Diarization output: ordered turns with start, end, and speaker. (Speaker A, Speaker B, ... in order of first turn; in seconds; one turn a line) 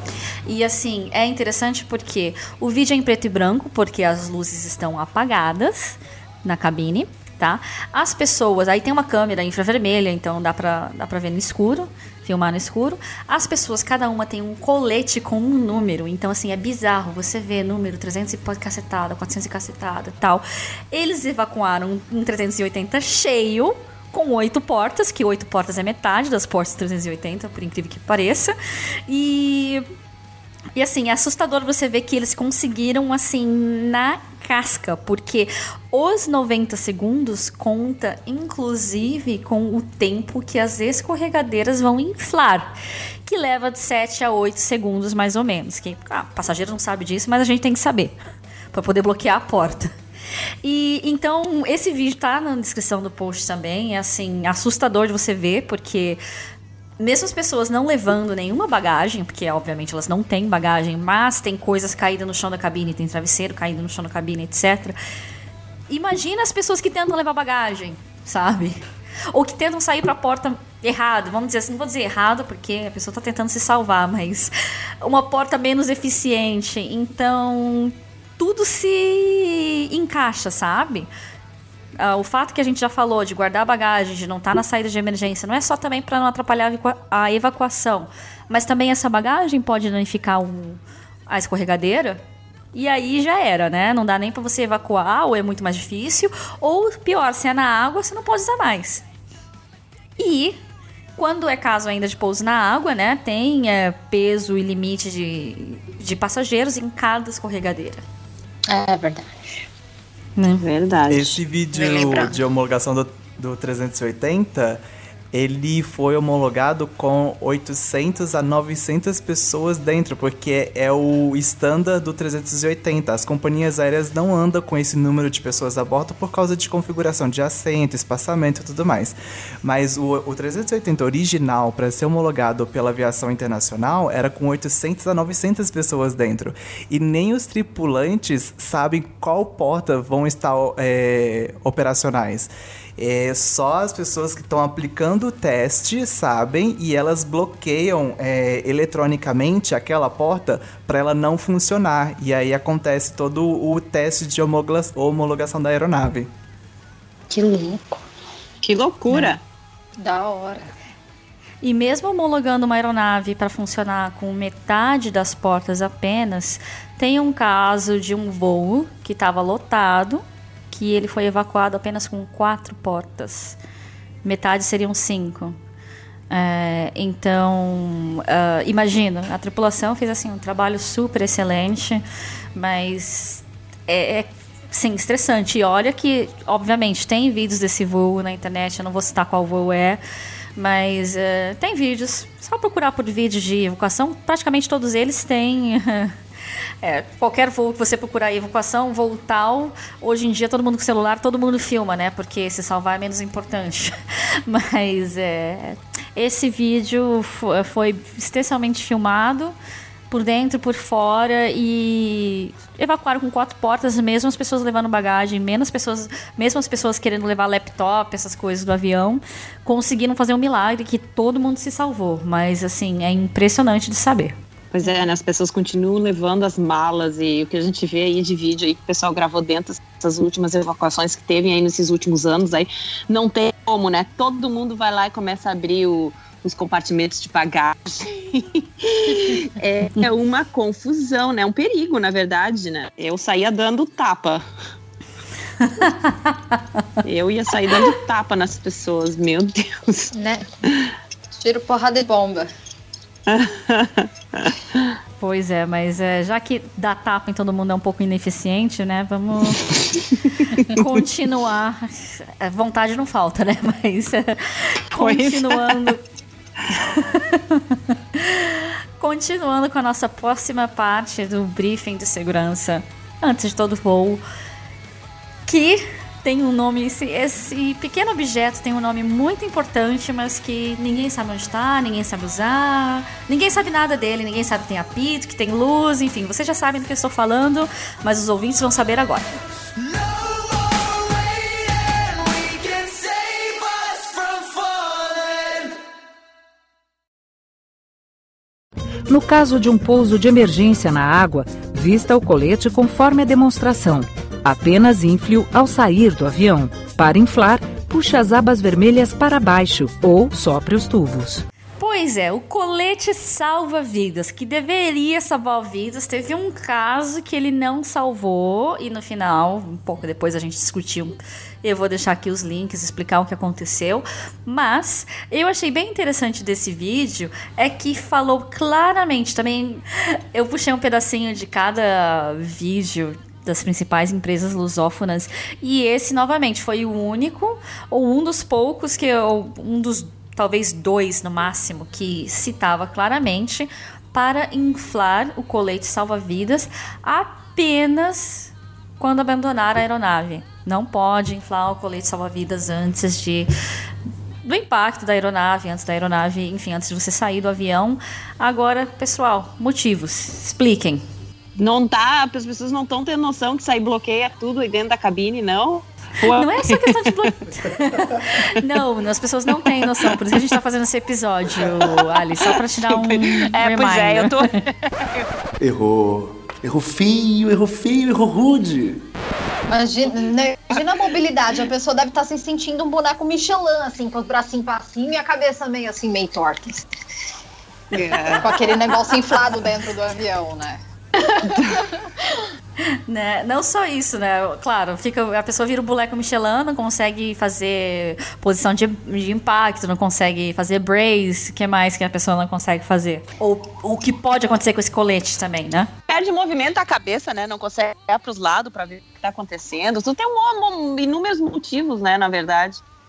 Speaker A: 0.5-28.5
Speaker A: 29.1-29.9
Speaker A: 30.8-42.7
Speaker A: 43.3-48.2
Speaker A: 48.7-49.9
Speaker A: 50.6-56.2
Speaker A: 57.0-65.0
Speaker A: 65.9-68.8
Speaker A: 69.3-81.1
Speaker A: 82.0-92.2
Speaker A: 92.7-99.0
Speaker A: 100.2-100.6
Speaker A: 101.2-108.0
Speaker B: 108.7-109.3
Speaker A: 110.4-110.7
Speaker C: 110.6-111.4
Speaker D: 111.1-156.3
Speaker B: 111.8-112.3
Speaker B: 157.3-158.0
Speaker C: 158.6-159.4
Speaker B: 160.0-160.7
Speaker A: 161.6-173.6
Speaker A: 174.2-175.6
Speaker A: 176.3-182.0
Speaker A: 182.6-190.0
Speaker A: 190.6-196.2
Speaker A: 196.8-203.9
Speaker A: 204.5-209.6
Speaker A: 210.1-224.4
Speaker C: 224.7-244.4
Speaker A: 245.8-246.1
Speaker C: 247.0-250.1
Speaker B: 250.2-250.5
Speaker B: 251.3-252.5
Speaker C: 253.3-254.9
Speaker A: 255.2-259.7
Speaker A: 260.7-266.0
Speaker C: 265.0-265.9
Speaker A: 266.9-274.2
Speaker A: 275.5-289.3
Speaker E: 299.1-311.4
Speaker A: 311.8-353.5
Speaker A: 354.4-361.0
Speaker C: 361.6-367.3
Speaker A: 366.2-374.5
Speaker C: 372.9-375.3
Speaker F: 375.6-378.9
Speaker B: 379.7-386.9
Speaker C: 387.9-388.9
Speaker B: 388.1-392.5
Speaker A: 393.1-405.9
Speaker C: 406.1-412.8